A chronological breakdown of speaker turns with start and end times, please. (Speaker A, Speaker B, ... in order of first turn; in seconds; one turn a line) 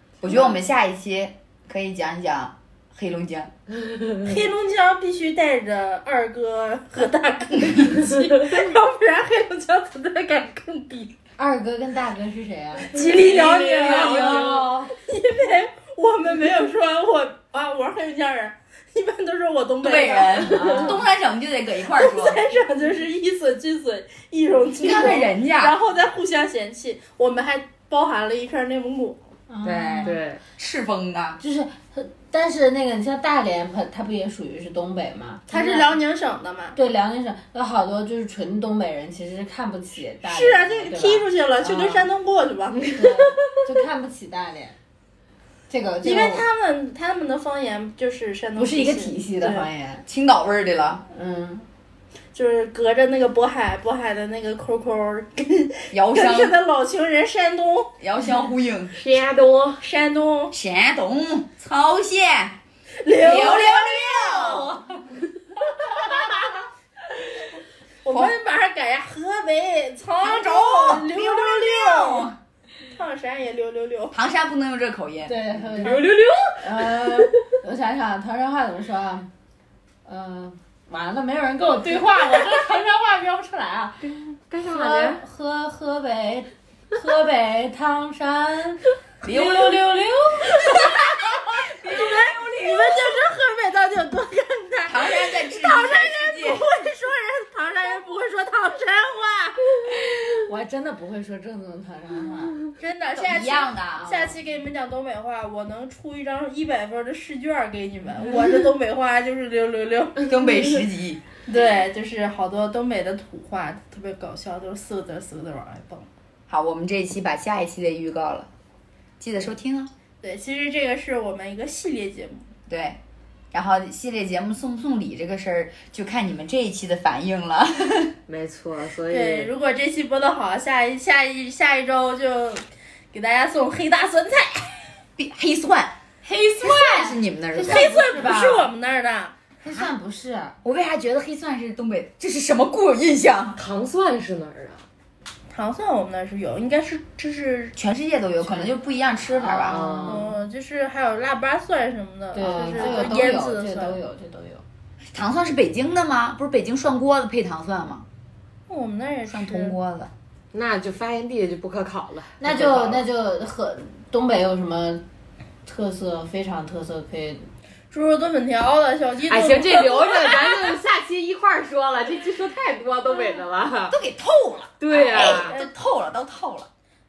Speaker A: 0.2-3.5
Speaker B: 3.9-4.3
Speaker C: 4.2-11.1
Speaker D: 11.4-14.9
Speaker C: 12.9-20.9
Speaker B: 13.0-14.7
Speaker A: 19.8-22.4
Speaker B: 20.7-20.9
Speaker C: 21.9-29.2
Speaker A: 24.8-25.8
Speaker D: 29.5-30.2
Speaker A: 29.6-31.4
Speaker B: 30.0-30.4
Speaker D: 31.4-36.0
Speaker C: 35.5-36.8
Speaker D: 36.8-42.1
Speaker C: 40.2-43.0
Speaker D: 42.9-44.8
Speaker D: 45.7-46.5
Speaker C: 46.0-49.7
Speaker D: 48.6-50.0
Speaker A: 50.1-51.0
Speaker D: 51.1-51.7
Speaker C: 52.3-57.9
Speaker A: 55.9-56.5
Speaker A: 58.0-58.9
Speaker B: 59.0-59.8
Speaker C: 59.8-60.5
Speaker A: 60.5-64.9
Speaker C: 63.0-64.7
Speaker C: 68.0-72.3
Speaker A: 68.1-68.3
Speaker A: 70.2-72.4
Speaker C: 72.9-74.1
Speaker A: 74.1-75.5
Speaker D: 75.2-79.3
Speaker B: 75.7-77.5
Speaker D: 80.1-84.1
Speaker B: 84.5-85.2
Speaker D: 84.6-90.9
Speaker A: 89.2-89.9
Speaker A: 90.6-93.2
Speaker C: 91.8-99.6
Speaker A: 94.9-96.7
Speaker D: 100.5-102.6
Speaker C: 102.8-110.3
Speaker A: 103.1-104.3
Speaker A: 110.3-111.2
Speaker C: 111.5-116.1
Speaker A: 116.5-118.5
Speaker A: 119.2-119.9
Speaker C: 120.2-122.5
Speaker A: 122.7-123.0
Speaker A: 123.5-128.1
Speaker B: 128.3-129.5
Speaker C: 129.1-134.7
Speaker A: 135.2-136.0
Speaker D: 136.2-138.7
Speaker A: 136.6-138.1
Speaker C: 137.6-139.3
Speaker D: 139.6-140.6
Speaker A: 139.7-139.9
Speaker A: 140.6-143.6
Speaker B: 143.6-144.8
Speaker C: 145.5-147.8
Speaker A: 147.8-149.9
Speaker D: 148.4-148.7
Speaker D: 149.3-150.4
Speaker B: 149.7-150.3
Speaker C: 150.1-154.0
Speaker D: 152.3-154.6
Speaker A: 152.6-153.1
Speaker A: 155.1-158.1
Speaker C: 158.7-159.8
Speaker A: 159.3-160.1
Speaker B: 160.5-163.1
Speaker D: 162.4-165.0
Speaker D: 165.7-167.5
Speaker C: 167.9-170.7
Speaker B: 169.3-174.0
Speaker A: 173.9-176.7
Speaker B: 174.8-175.6
Speaker C: 175.3-175.7